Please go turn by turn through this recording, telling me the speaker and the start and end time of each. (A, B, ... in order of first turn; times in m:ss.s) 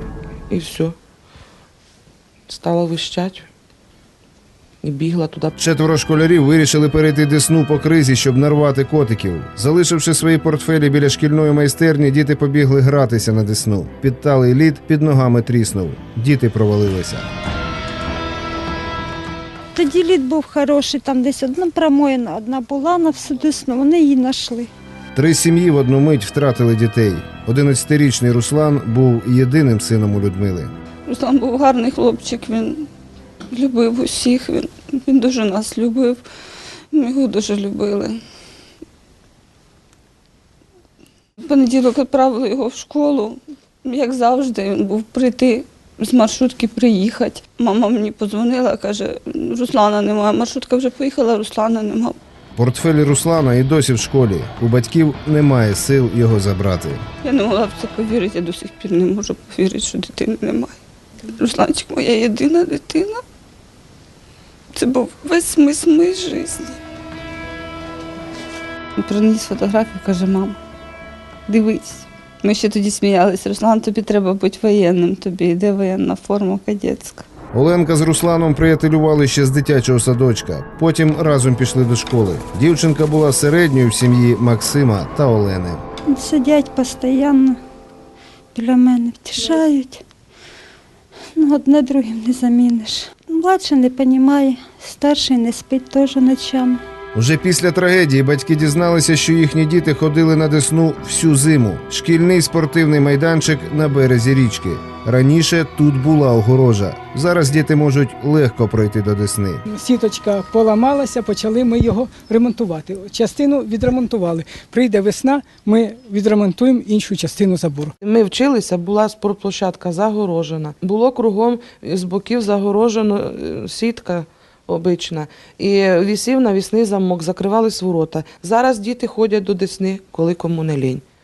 0:00.5-0:01.0 A
0:02.5-0:03.5 A
0:04.8-0:05.5 A
0:05.6-0:17.3 B
0:19.8-0:24.7 C
0:25.1-0:30.7 B
0:31.1-0:32.9 D
0:33.5-0:36.2 D
0:36.9-0:38.2 D
0:41.4-0:52.2 D
0:52.6-0:57.1 B
0:57.2-1:00.8 D
1:01.3-1:03.2 D
1:04.7-1:06.8 D
1:09.0-1:10.6 D
1:11.5-1:17.3 D
1:17.5-1:25.8 B
1:26.1-1:27.6 C
1:28.5-1:30.0 C
1:31.4-1:36.8 C
1:37.1-1:49.6 B
1:49.7-1:57.9 E
1:58.0-2:11.0 A